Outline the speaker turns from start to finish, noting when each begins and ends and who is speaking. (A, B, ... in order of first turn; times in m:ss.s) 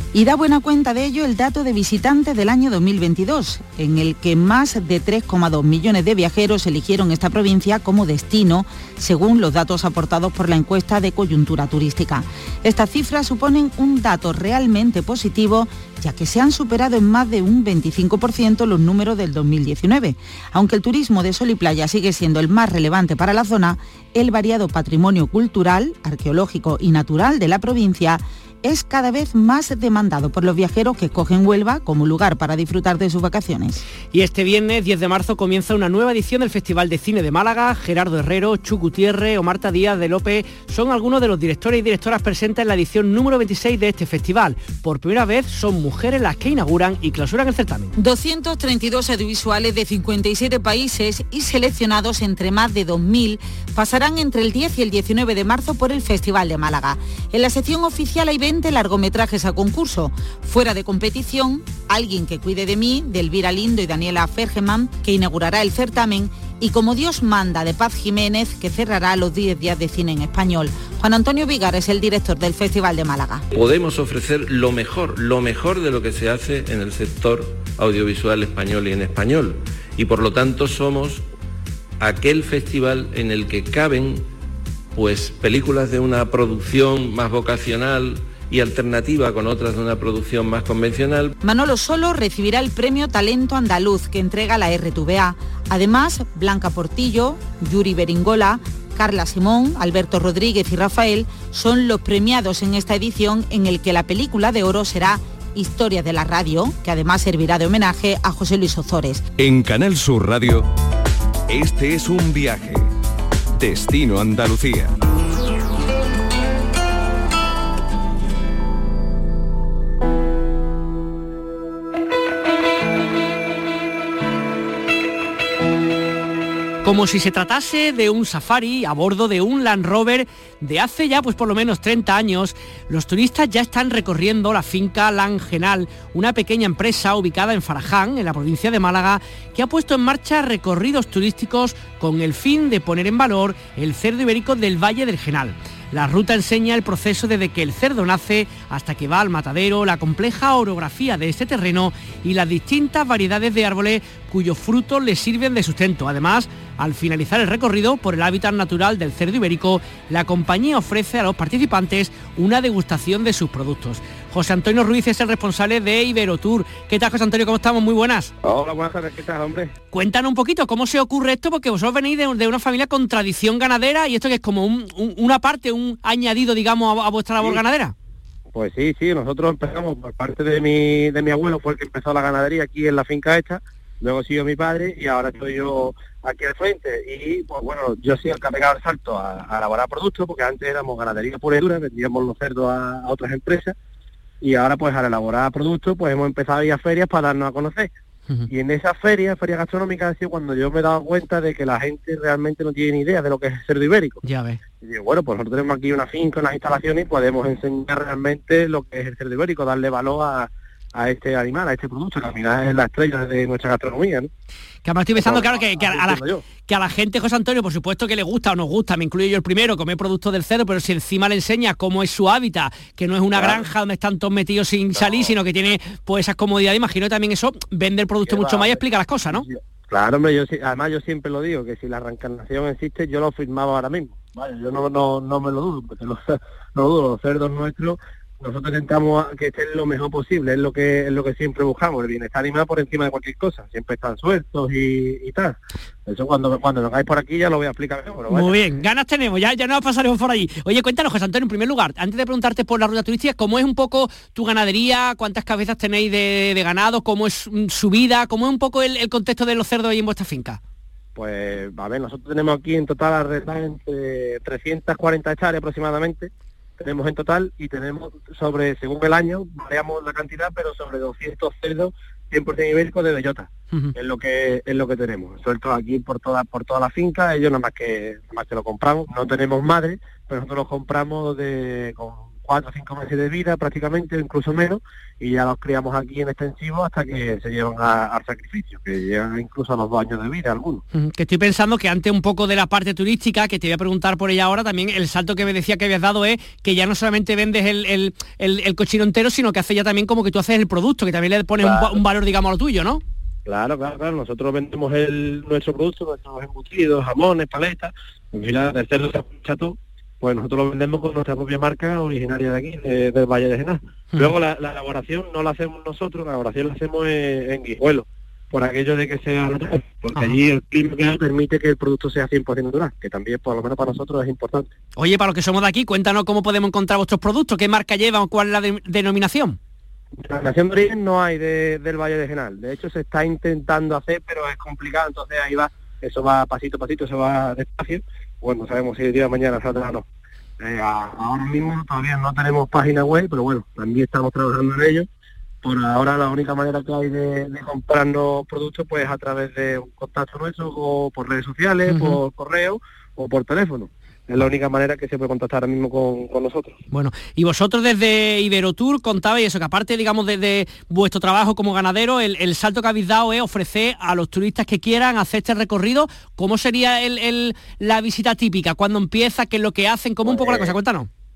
0:00.1-0:33.8 A
0:34.1-0:48.0 B
0:48.0-1:13.4 A
1:13.5-1:21.3 C
1:22.0-1:24.3 C
1:25.0-1:31.3 C
1:31.4-1:49.2 A
1:49.4-1:50.7 D
1:51.5-1:52.9 D
1:53.6-1:54.9 D
2:06.8-2:48.3 B
2:48.4-2:49.7 E
2:49.9-2:57.9 B
2:58.5-3:13.8 E
3:14.4-3:17.9 E
3:18.5-3:24.2 E
3:24.2-3:24.6 B
3:24.8-3:34.3 E
3:34.8-3:49.4 B
3:35.2-3:36.4 E
3:43.4-3:43.7 E
3:45.0-3:45.3 E
3:48.3-4:08.6 E
4:08.3-4:20.6 B
4:21.2-4:50.8 E
4:50.9-5:03.0 B
5:01.6-5:02.0 E
5:03.5-5:24.7 E
5:25.0-5:29.6 B
5:30.2-5:40.0 E
5:40.6-5:45.1 E
5:45.6-5:56.8 E
5:51.9-5:52.2 B
5:56.9-6:11.1 B
6:10.3-6:10.8 E